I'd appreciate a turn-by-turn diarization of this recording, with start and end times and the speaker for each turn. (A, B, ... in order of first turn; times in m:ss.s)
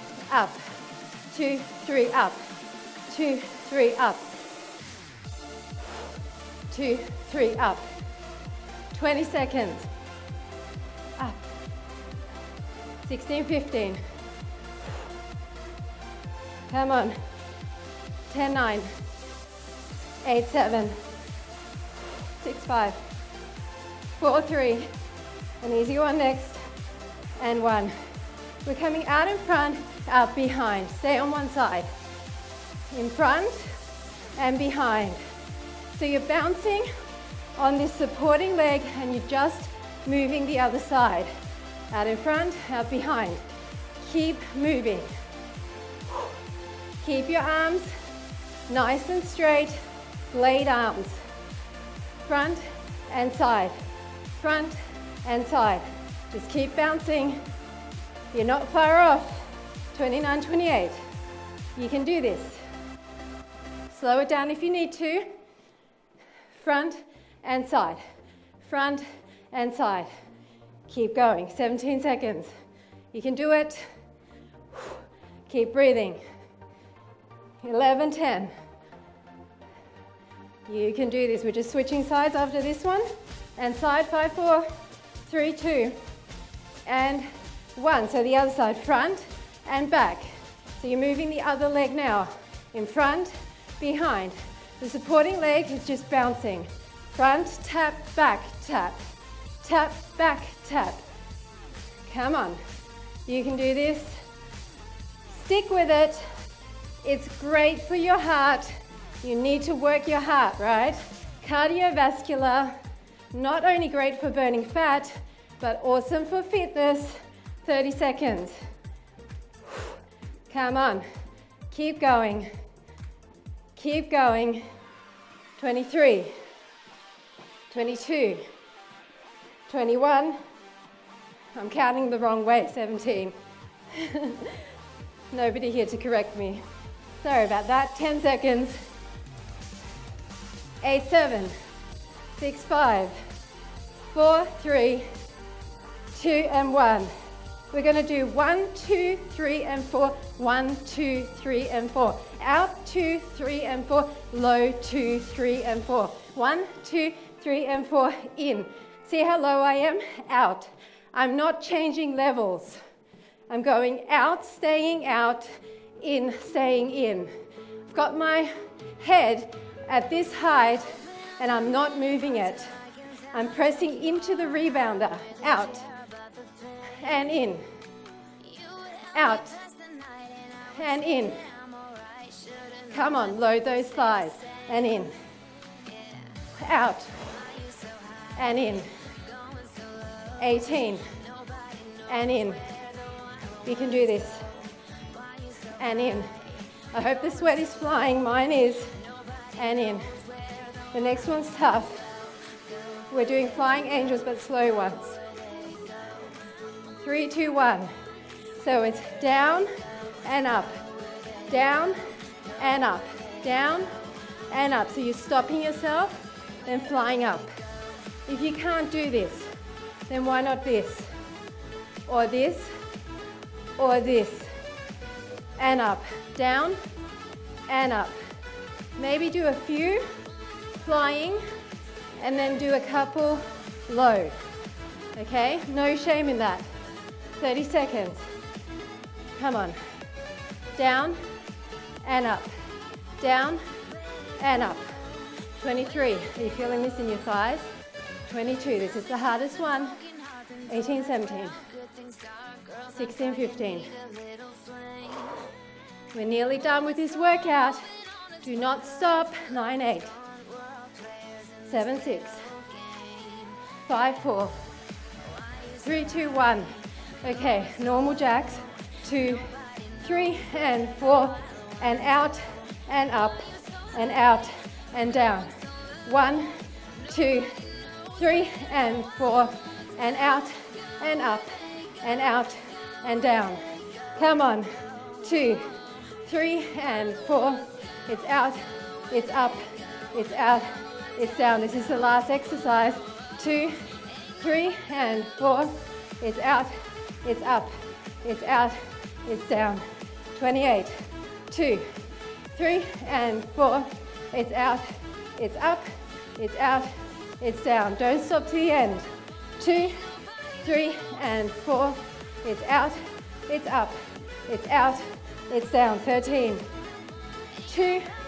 0:00.3-0:00.7 A
0:01.3-0:02.5 A
0:03.1-0:04.3 A
0:06.7-0:07.9 A
0:08.9-0:09.9 A
0:13.0-0:14.0 A
0:16.7-0:17.2 A
0:18.3-0:18.9 A
0:20.2-0:21.0 A
0:22.4-0:23.0 A
0:24.2-0:24.9 A
0:25.6-0:26.6 A
0:27.4-0:27.9 A
0:28.6-0:31.9 A
0:32.9-0:33.8 A
0:34.4-0:35.2 A
0:35.9-0:36.9 A
0:37.6-0:41.3 A
0:41.9-0:43.4 A
0:44.0-0:45.1 A
0:47.0-0:47.9 A
0:48.7-0:49.8 A
0:50.3-0:51.2 A
0:52.2-0:53.8 A
0:54.4-0:57.4 A
0:58.3-1:01.0 A
1:01.8-1:02.6 A
1:03.9-1:05.3 A
1:06.5-1:08.0 A
1:08.6-1:10.1 A
1:10.9-1:12.5 A
1:13.1-1:13.8 A
1:14.7-1:16.2 A
1:17.6-1:18.5 A
1:20.7-1:24.7 A
1:25.2-1:26.0 A
1:26.8-1:39.0 A
1:39.6-1:41.0 A
1:42.0-1:42.6 A
1:43.2-1:44.2 A
1:45.3-1:46.2 A
1:47.0-1:52.7 A
1:53.3-1:58.5 A
2:00.5-2:01.0 A
2:01.7-2:02.5 A
2:03.8-2:04.6 A
2:05.6-2:06.4 A
2:07.7-2:08.4 A
2:09.7-2:10.4 A
2:11.5-2:13.3 A
2:13.9-2:14.6 A
2:15.3-2:16.6 A
2:17.2-2:18.8 A
2:20.8-2:21.5 A
2:22.4-2:23.2 A
2:24.1-2:25.1 A
2:26.1-2:27.1 A
2:27.7-2:42.8 A
2:43.5-2:47.3 A
2:47.9-2:50.8 A
2:51.4-2:52.7 A
2:53.3-2:55.9 A
2:57.0-2:57.6 A
2:59.1-2:59.6 A
3:00.7-3:01.5 A
3:02.9-3:05.2 A
3:06.6-3:07.3 A
3:08.3-3:08.9 A
3:10.4-3:11.0 A
3:12.0-3:12.6 A
3:13.6-3:14.4 A
3:15.8-3:16.3 A
3:16.9-3:18.9 A
3:19.5-3:20.0 A
3:20.9-3:22.0 A
3:23.1-3:25.2 A
3:27.0-3:27.9 A
3:28.6-3:29.7 A
3:30.2-3:30.8 A
3:31.5-3:32.0 A
3:32.6-3:33.9 A
3:34.5-3:37.5 A
3:38.3-3:39.5 A
3:40.1-3:41.1 A
3:42.1-3:42.7 A
3:43.8-3:44.5 A
3:45.6-3:46.8 A
3:47.7-3:48.2 A
3:49.0-3:50.0 A
3:50.8-3:51.4 A
3:52.2-3:54.4 A
3:55.2-3:56.7 A
3:57.4-3:58.2 A
3:59.3-3:59.8 A
4:00.7-4:01.2 A
4:02.0-4:02.5 A
4:03.2-4:03.6 A
4:04.4-4:04.9 A
4:05.5-4:07.7 A
4:08.2-4:10.0 A
4:10.7-4:11.6 A
4:12.8-4:14.0 A
4:16.1-4:17.9 A
4:18.4-4:20.1 A
4:21.6-4:22.4 A
4:23.8-4:24.6 A
4:25.8-4:26.7 A
4:27.2-4:35.5 A
4:36.0-4:36.5 A
4:37.1-4:37.5 A
4:38.1-4:43.6 A
4:44.1-4:44.7 A
4:45.2-4:45.7 A
4:46.2-4:53.8 A
4:54.3-5:00.9 A
5:01.5-5:01.9 A
5:02.5-5:10.0 A
5:10.6-5:16.6 A
5:17.6-5:18.1 A